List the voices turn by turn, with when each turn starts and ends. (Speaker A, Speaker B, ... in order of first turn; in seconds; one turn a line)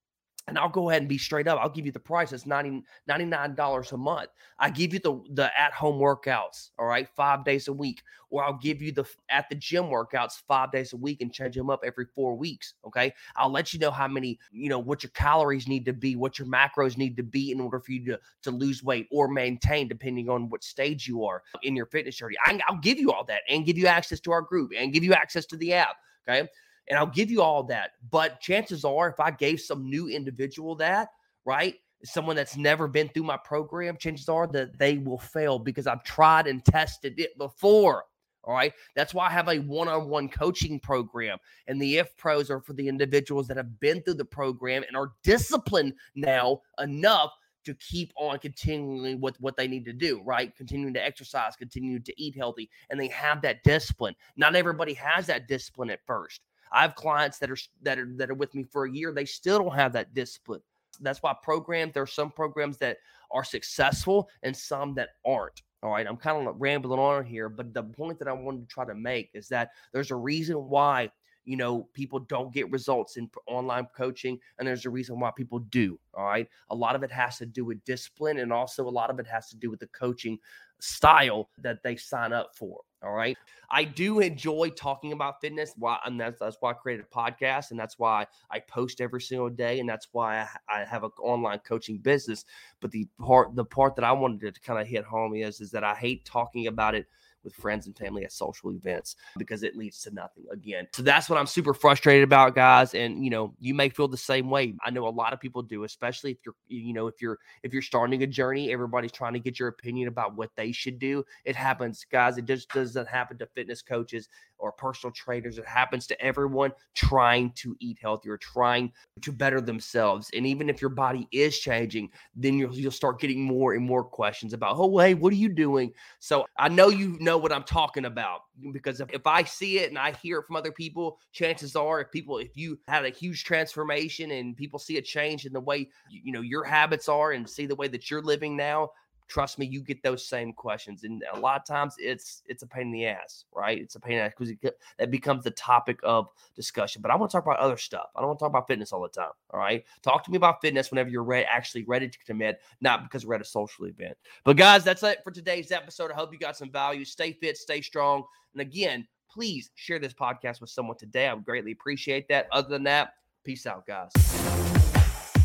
Speaker A: 0.5-164.3